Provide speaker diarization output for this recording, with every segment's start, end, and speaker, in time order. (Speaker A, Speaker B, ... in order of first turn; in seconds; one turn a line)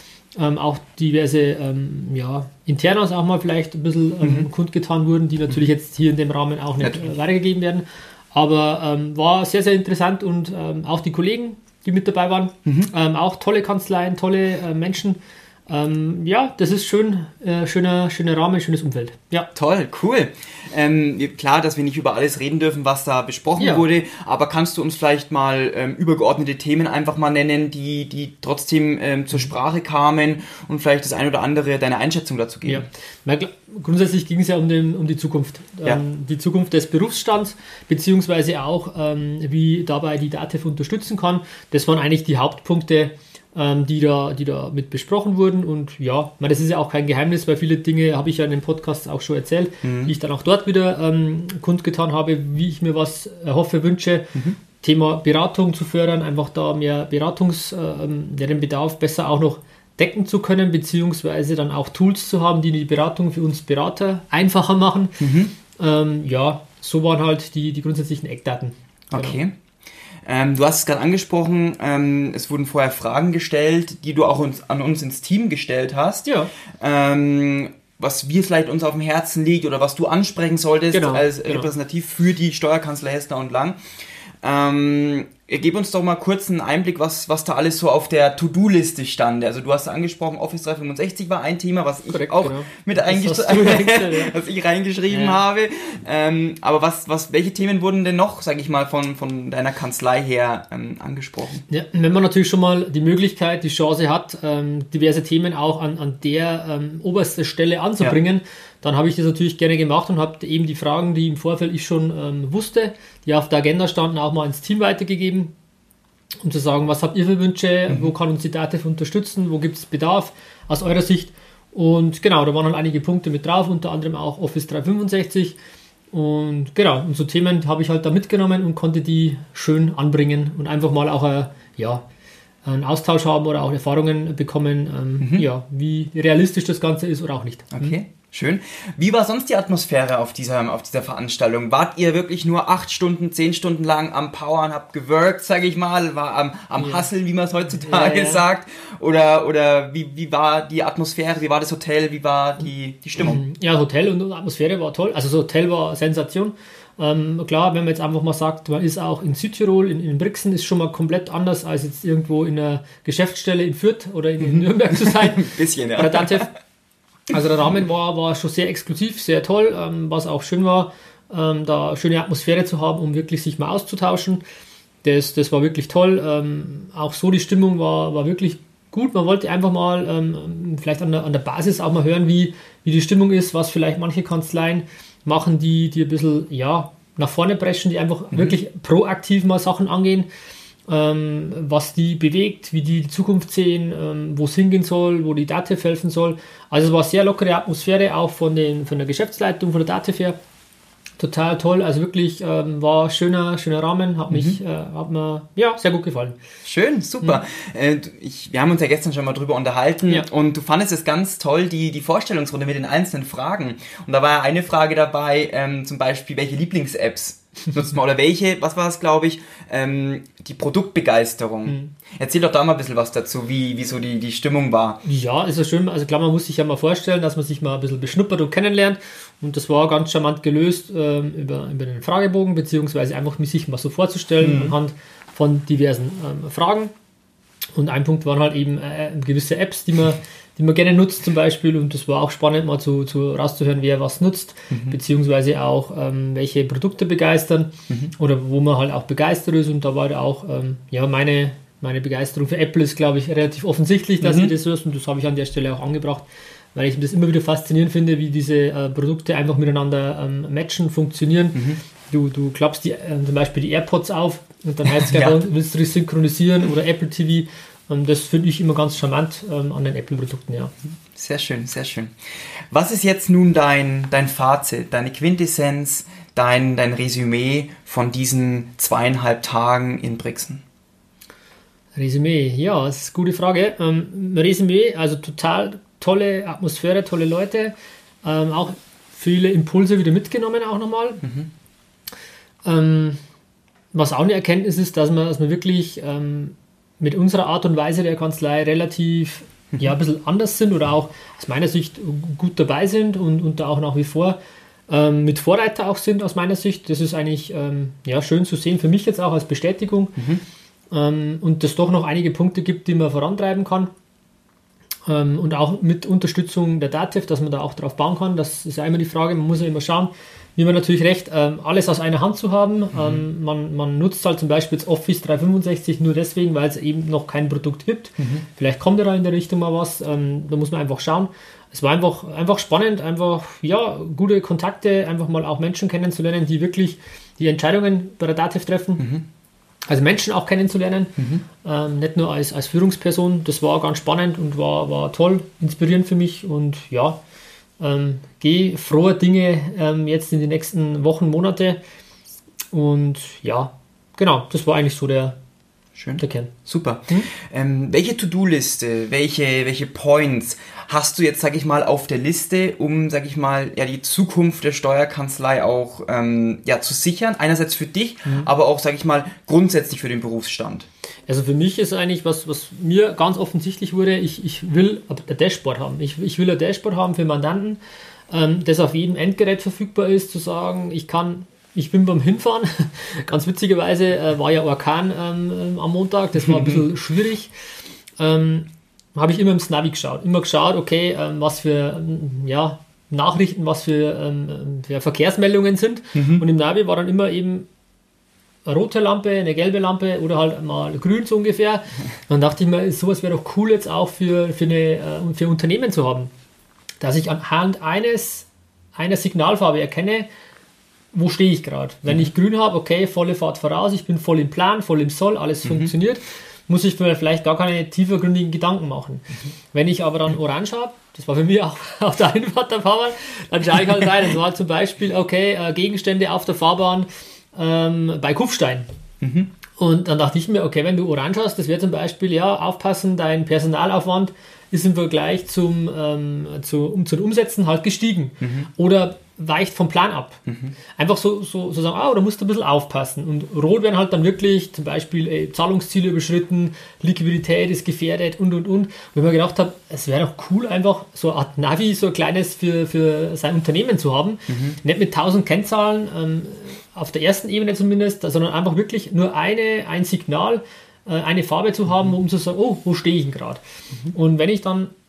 Speaker A: 0.3-19.5
Speaker B: 4.2-4.5
Speaker B: 12.6-12.9
Speaker B: 19.5-32.9
Speaker A: 23.6-23.8
Speaker A: 32.6-69.4
Speaker B: 49.8-50.1
Speaker B: 65.2-65.5
Speaker B: 69.1-69.5
Speaker B: 70.2-76.2
Speaker A: 76.2-76.5
Speaker B: 76.8-83.8
Speaker A: 80.9-81.7
Speaker B: 84.4-101.6
Speaker A: 92.1-94.4
Speaker A: 95.1-95.4
Speaker A: 101.7-115.5
Speaker A: 116.4-125.6
Speaker A: 126.1-132.0
Speaker A: 132.6-138.0
Speaker B: 135.2-135.5
Speaker B: 137.7-153.4
Speaker A: 146.8-147.1
Speaker A: 147.8-148.4
Speaker A: 153.2-166.5
Speaker B: 164.4-166.5
Speaker A: 167.3-174.4
Speaker A: 175.0-190.3
Speaker A: 190.9-200.4
Speaker A: 201.2-206.3
Speaker B: 204.3-204.6
Speaker B: 206.6-225.0
Speaker A: 221.7-221.9
Speaker A: 225.0-236.9
Speaker B: 234.4-234.7
Speaker A: 237.7-270.7
Speaker B: 244.7-245.0
Speaker B: 254.2-254.5
Speaker B: 261.5-261.8
Speaker B: 264.9-265.4
Speaker B: 271.1-272.1
Speaker B: 272.7-280.6
Speaker A: 281.9-291.2
Speaker B: 291.2-291.5
Speaker A: 292.6-293.2
Speaker A: 293.9-304.4
Speaker A: 304.9-310.2
Speaker B: 310.2-310.4
Speaker A: 310.9-313.9
Speaker A: 315.1-339.0
Speaker B: 322.9-323.2
Speaker B: 328.2-328.4
Speaker B: 339.0-339.2
Speaker A: 339.9-347.2
Speaker B: 341.2-341.4
Speaker A: 347.8-351.8
Speaker A: 352.7-355.4
Speaker B: 355.9-370.9
Speaker A: 356.2-356.5
Speaker A: 371.3-387.5
Speaker B: 386.4-386.8
Speaker A: 388.2-397.7
Speaker B: 396.1-396.4
Speaker A: 398.6-406.3
Speaker A: 407.0-410.3
Speaker A: 411.1-428.9
Speaker B: 415.6-415.9
Speaker B: 429.2-429.5
Speaker A: 429.8-464.9
Speaker B: 438.4-438.7
Speaker B: 440.5-440.7
Speaker B: 454.5-454.8